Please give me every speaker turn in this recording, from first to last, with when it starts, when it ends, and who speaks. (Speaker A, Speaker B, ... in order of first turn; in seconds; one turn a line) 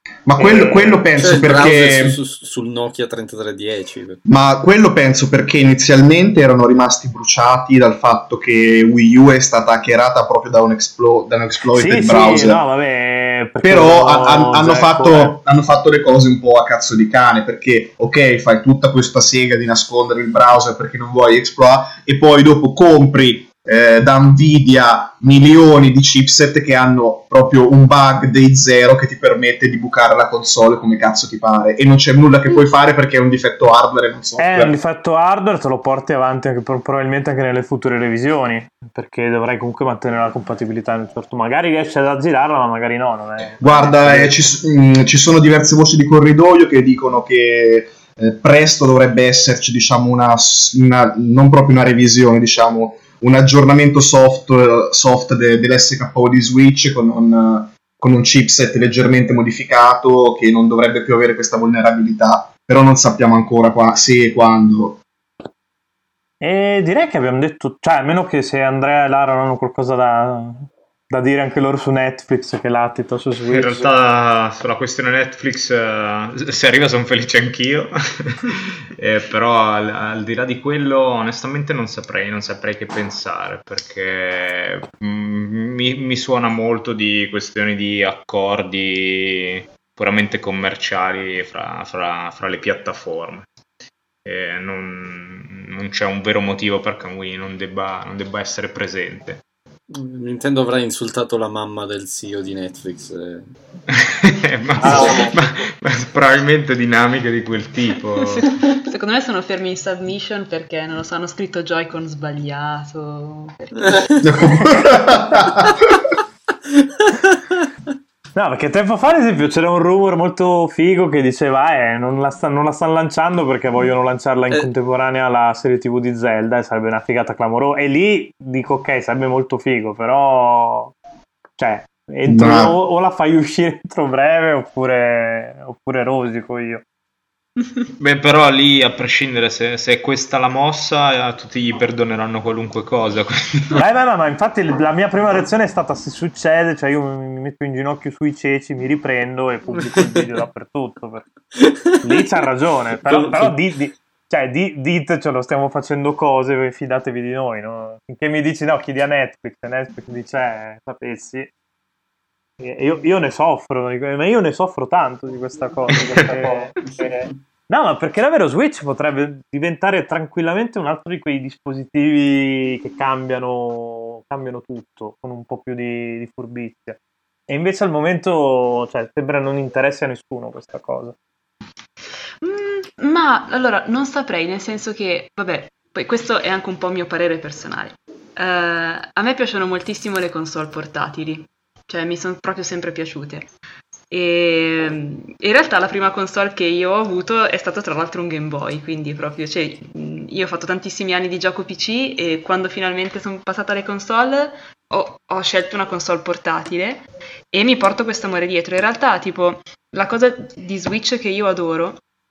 Speaker A: 0.2-2.2
Speaker B: 0.4-1.0
Speaker C: 1.2-4.2
Speaker A: 4.2-12.6
Speaker B: 11.7-15.4
Speaker A: 13.6-34.7
Speaker B: 34.4-44.4
Speaker A: 43.6-65.0
Speaker B: 66.4-73.9
Speaker D: 73.5-93.5
Speaker D: 94.2-99.4
Speaker C: 99.9-103.5
Speaker D: 103.9-108.5
Speaker B: 104.8-105.4
Speaker C: 104.8-105.3
Speaker E: 108.4-114.8
Speaker C: 113.9-114.2
Speaker A: 114.2-115.8
Speaker C: 116.8-117.4
Speaker B: 118.3-130.9
Speaker B: 131.6-136.8
Speaker A: 132.2-132.7
Speaker D: 138.0-143.8
Speaker B: 143.7-151.2
Speaker C: 149.7-150.2
Speaker C: 151.6-152.1
Speaker B: 152.0-161.5
Speaker C: 153.1-153.6
Speaker B: 162.6-181.1
Speaker D: 165.9-166.6
Speaker E: 182.4-193.5
Speaker E: 194.1-212.0